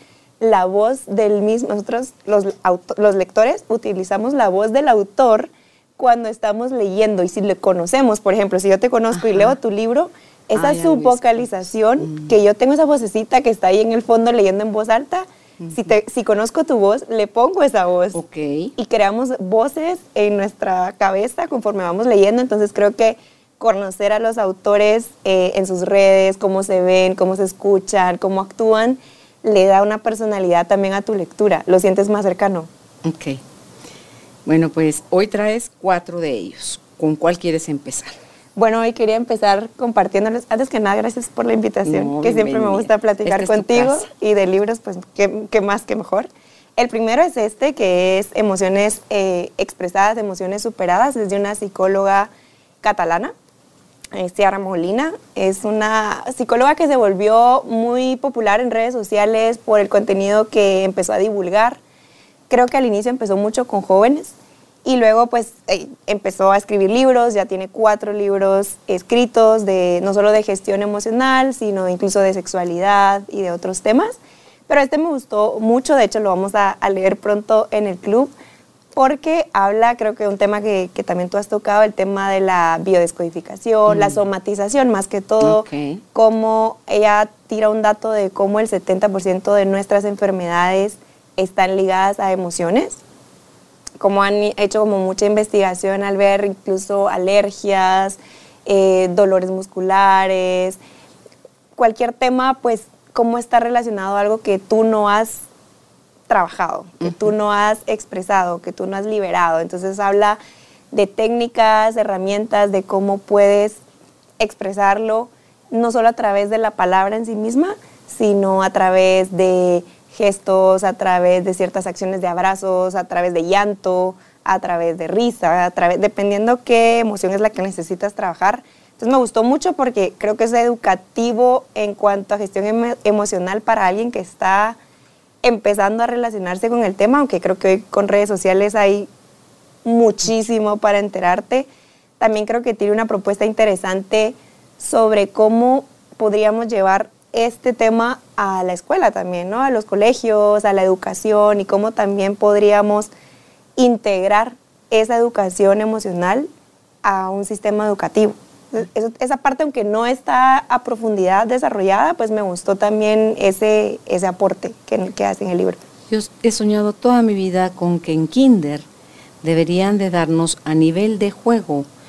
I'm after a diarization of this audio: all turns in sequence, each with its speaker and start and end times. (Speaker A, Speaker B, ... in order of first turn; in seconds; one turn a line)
Speaker A: 0.4-18.2
Speaker B: 9.2-9.5
Speaker B: 10.6-12.3
Speaker B: 15.6-15.9
Speaker B: 18.1-18.7
Speaker A: 18.8-32.7
Speaker B: 33.0-33.4
Speaker B: 34.5-38.1
Speaker A: 38.6-52.3
Speaker B: 41.9-44.1
Speaker A: 52.8-53.3
Speaker A: 54.1-61.8
Speaker A: 62.5-64.3
Speaker A: 64.8-78.3
Speaker A: 79.0-93.0
Speaker B: 83.9-84.2
Speaker B: 85.4-86.0
Speaker A: 94.0-100.8
Speaker A: 101.8-105.5
Speaker A: 106.3-110.4
Speaker A: 110.9-113.8
Speaker A: 114.4-134.8
Speaker A: 135.4-139.1
Speaker A: 139.8-141.7
Speaker A: 142.2-153.1
Speaker A: 153.8-156.5
Speaker A: 157.0-165.8
Speaker B: 166.1-168.9
Speaker B: 169.4-171.9